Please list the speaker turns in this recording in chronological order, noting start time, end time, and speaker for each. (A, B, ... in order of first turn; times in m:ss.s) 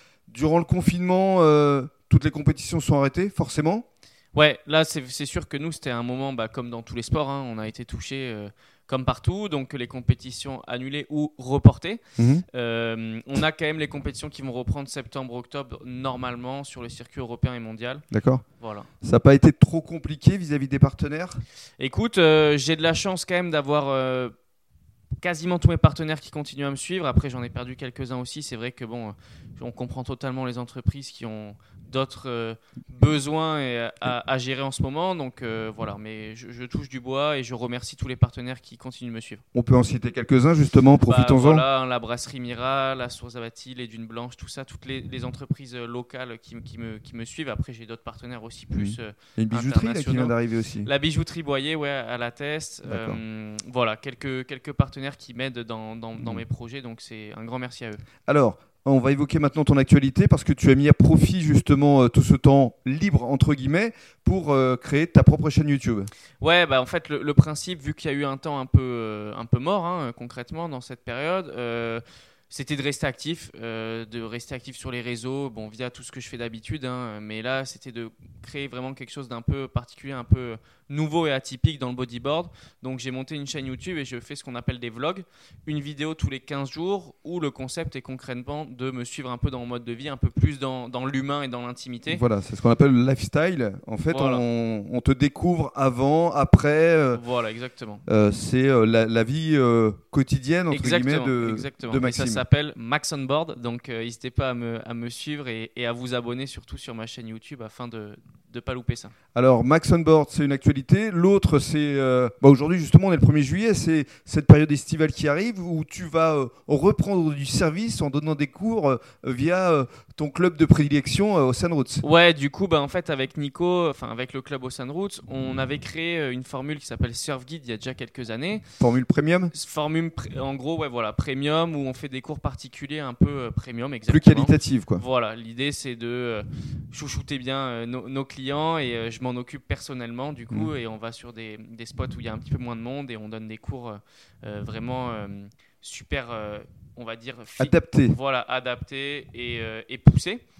0:00.3-0:03.8 A
0:04.3-0:12.0 B
0:12.2-0:12.4 A
0:12.5-0:18.0 B
0:18.1-0:18.4 A
0:18.6-0:18.9 B
0:19.0-0:21.4 A
0:21.8-0:24.3 B
0:25.2-0:39.4 B
0:39.5-0:41.6 A
0:41.0-0:50.3 B
0:48.7-0:50.9 A
0:50.8-0:58.0 B
0:52.9-0:53.2 A
0:58.2-1:06.1 A
1:06.4-1:32.2 B
1:32.1-1:37.2 A
1:34.1-1:34.4 B
1:37.1-1:38.0 B
1:38.0-1:42.4 A
1:40.7-1:49.1 B
1:49.3-2:02.0 A
2:02.0-2:08.6 B
2:08.8-2:09.5 A
2:09.5-2:30.4 B
2:14.1-2:15.0 A
2:27.6-2:28.2 A